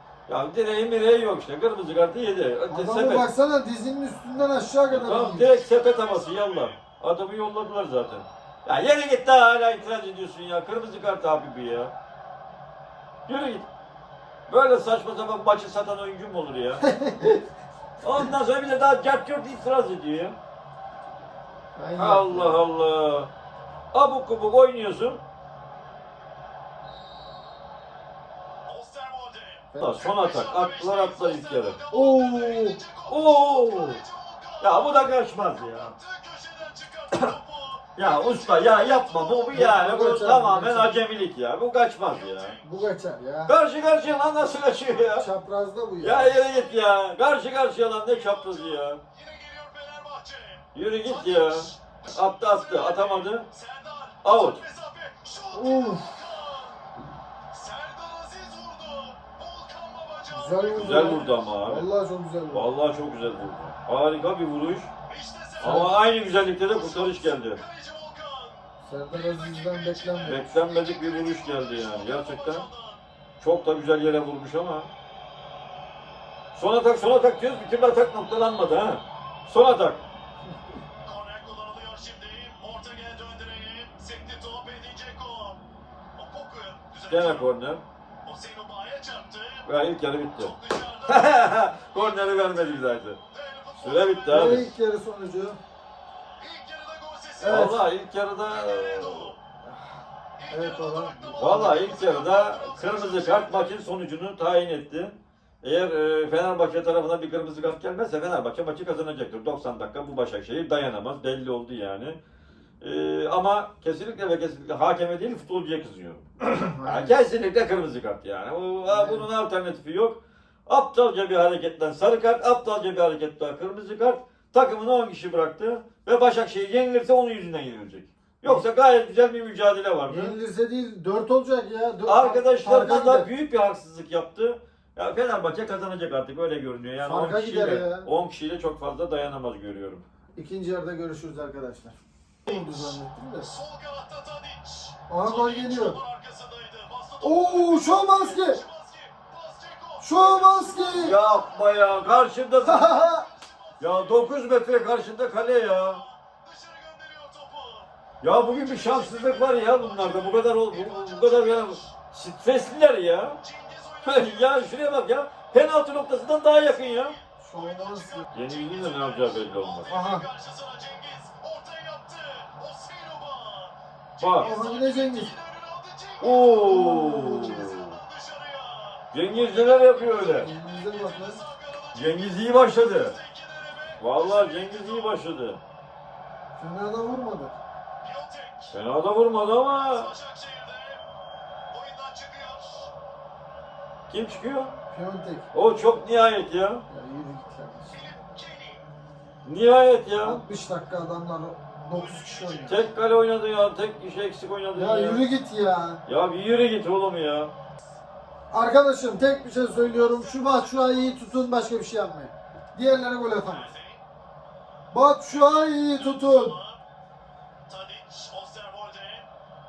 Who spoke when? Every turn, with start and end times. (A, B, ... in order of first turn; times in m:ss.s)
0:00.3-0:03.3 A
0:02.7-0:05.5 B
0:04.9-0:11.9 A
0:05.6-0:06.8 C
0:13.3-0:13.7 A
0:14.5-0:17.0 A
0:16.9-0:17.4 B
0:18.0-0:20.4 A
0:21.8-0:22.6 B
0:22.0-0:23.3 A
0:23.9-0:25.2 A
0:28.7-0:34.9 C
0:29.8-0:31.8 A
0:31.9-0:32.8 B
0:33.1-0:34.0 A
0:34.6-0:36.0 A
0:35.8-0:39.4 C
0:38.0-0:42.6 A
0:39.5-0:41.0 B
0:42.1-0:42.6 C
0:42.6-0:43.6 B
0:43.5-0:45.3 A
0:45.1-0:46.4 B
0:46.0-0:49.0 A
0:48.2-0:56.9 C
0:50.8-0:53.5 A
0:54.2-0:54.6 A
0:55.5-0:56.3 B
0:57.5-1:01.2 C
1:00.3-1:02.7 B
1:00.7-1:01.9 A
1:02.5-1:04.9 A
1:05.1-1:05.9 C
1:05.6-1:07.6 A
1:05.6-1:05.9 B
1:06.6-1:13.0 C
1:08.8-1:10.5 B
1:10.3-1:12.7 A
1:13.4-1:14.9 A
1:16.5-1:20.0 A
1:21.0-1:25.6 C
1:26.2-1:27.5 C
1:27.1-1:27.8 A
1:28.2-1:29.7 C
1:29.6-1:30.5 A
1:30.4-1:32.8 C
1:31.1-1:33.2 A
1:33.3-1:34.6 C
1:33.8-1:34.7 A
1:34.3-1:35.6 B
1:36.4-1:37.7 C
1:37.4-1:37.8 B
1:37.5-1:39.4 A
1:38.5-1:39.4 C
1:40.4-1:43.7 C
1:40.5-1:41.9 B
1:41.4-1:52.2 A
1:52.8-2:10.4 A
1:56.5-1:57.2 B
1:58.9-1:59.3 B
2:10.1-2:13.3 B
2:12.1-2:20.0 A
2:17.0-2:18.1 B
2:20.4-2:23.5 B
2:22.5-2:31.0 C
2:25.1-2:26.0 B
2:27.2-2:28.6 B
2:30.0-2:31.2 B
2:30.9-2:32.9 A
2:32.6-2:33.2 B
2:33.0-2:34.3 C
2:33.8-2:36.0 A
2:35.8-2:37.9 C
2:38.2-2:43.4 A
2:38.5-2:41.9 C
2:43.4-2:44.6 C
2:44.0-2:47.2 A
2:46.8-2:56.6 C
2:47.4-2:48.3 B
2:48.3-2:49.9 A
2:49.9-2:50.2 B
2:54.2-2:54.5 A
2:54.4-2:55.4 B
2:56.2-2:58.0 A
2:56.6-2:57.7 B
2:57.6-2:59.1 C
2:59.1-3:00.5 A
3:00.3-3:01.4 B
3:00.9-3:05.2 C
3:01.9-3:03.2 A
3:04.0-3:05.6 A
3:06.6-3:07.6 B
3:08.0-3:08.7 C
3:08.7-3:10.1 A
3:09.7-3:11.0 C
3:11.7-3:12.9 C
3:14.1-3:14.8 A
3:14.9-3:15.5 B
3:15.5-3:16.8 A
3:16.9-3:18.0 B
3:17.9-3:18.8 C
3:19.4-3:20.4 A
3:20.2-3:22.8 B
3:22.0-3:22.9 C
3:22.7-3:25.2 A
3:24.7-3:26.0 B
3:26.1-3:27.5 A
3:28.5-3:33.7 B
3:29.8-3:31.3 C
3:33.4-3:34.0 C
3:34.9-3:36.6 B
3:35.8-3:36.8 C
3:37.7-3:39.2 C